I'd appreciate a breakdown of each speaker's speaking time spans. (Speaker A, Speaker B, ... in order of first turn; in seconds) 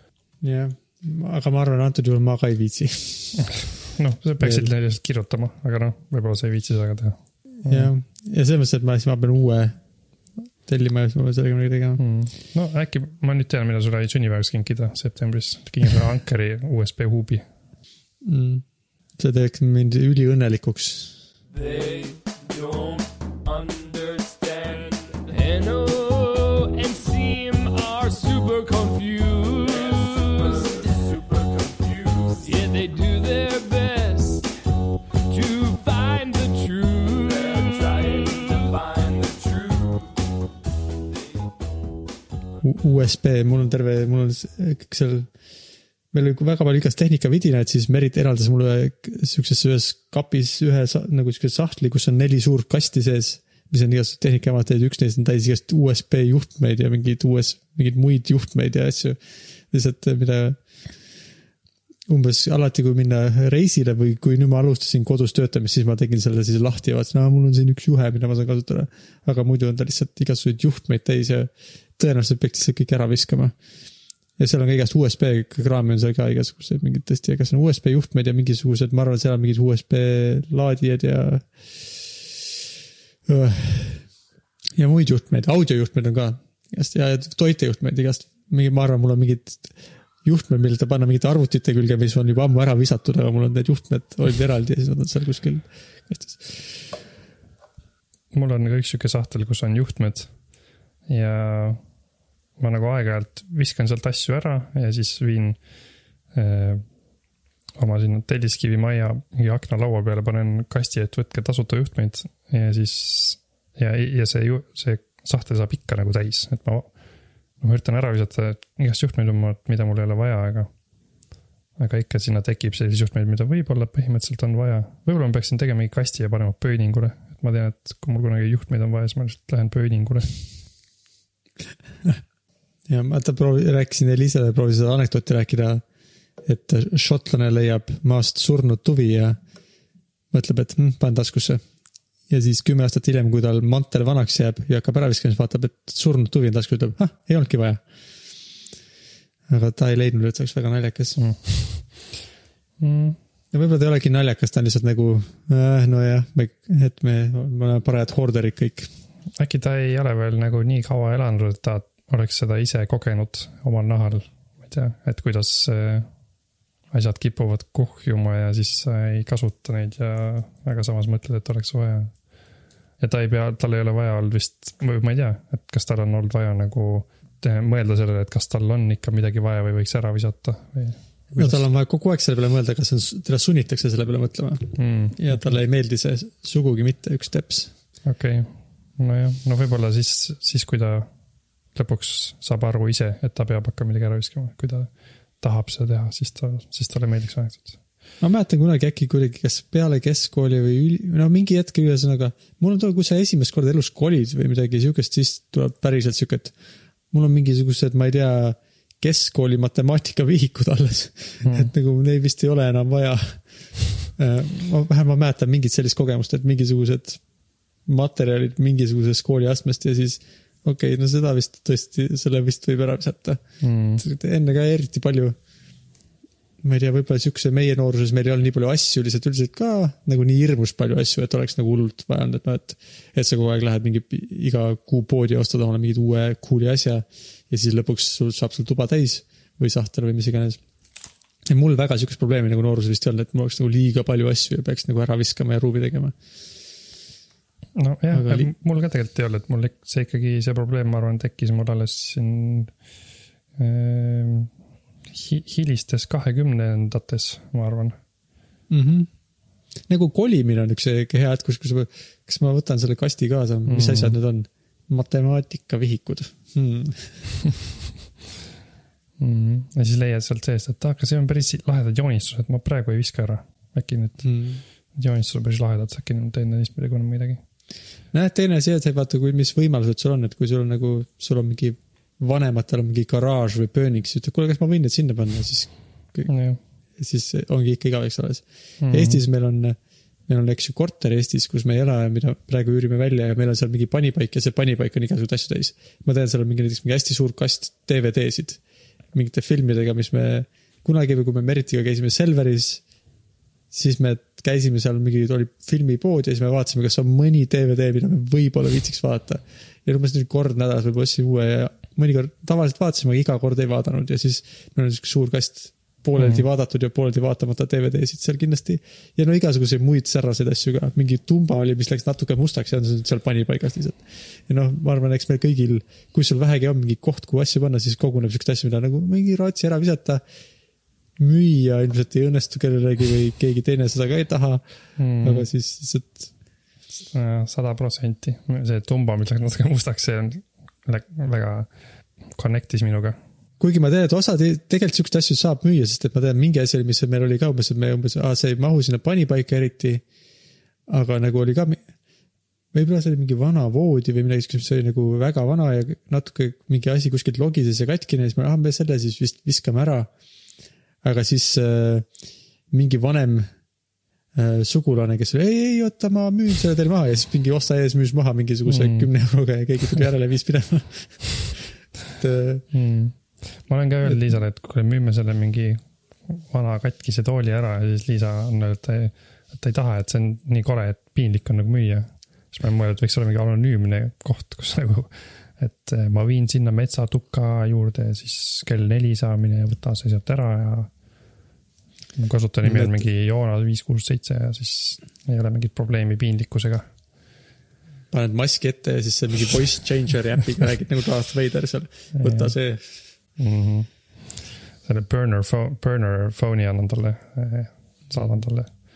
Speaker A: 0.4-3.5, 4.4-4.7, 7.7-9.8, 10.6-12.0, 18.2-18.6, 19.2-21.2, 42.6-45.3, 46.1-59.2, 59.7-60.6, 62.1-73.5, 74.4-82.2, 83.2-84.1, 84.8-89.7, 90.2-96.7, 132.9-135.8, 136.4-139.4, 140.3-141.6, 142.3-147.8, 149.5-151.2, 153.5-158.9, 181.3-187.7, 198.2-206.5, 207.1-217.2, 217.8-223.4, 224.0-225.3, 226.6-240.6, 241.5-246.2, 248.1-248.5, 258.7-259.1, 259.9-267.2, 274.2-274.6, 278.1-286.3, 287.0-298.6, 299.1-302.8, 303.7-330.2, 331.2-334.6, 335.2-336.3, 343.6-350.0, 350.9-351.8, 352.7-360.1, 361.0-362.1, 362.7-363.5, 364.3-372.6, 392.6-393.0, 398.1-402.8
Speaker B: 3.5-7.9, 12.0-17.4, 98.3-100.3, 101.1-101.8, 102.6-105.6, 106.3-106.8, 107.8-116.9, 117.6-120.7, 121.8-130.3, 151.2-152.1, 152.8-153.2, 159.3-166.1, 166.9-172.2, 173.0-181.7, 184.7-185.5, 188.0-191.1, 191.7-197.8, 211.4-211.7, 223.6-224.0, 247.7-252.7, 253.6-254.5, 255.1-258.0, 263.6-264.1, 269.2-274.3, 274.9-277.4, 286.3-286.6, 288.8-289.2, 316.2-316.4, 335.0-335.5, 337.1-341.7, 342.3-343.2, 368.6-369.1, 372.7-390.9, 392.1-396.9, 402.1-402.5, 403.4-408.7
Speaker C: 21.5-34.5, 35.3-40.1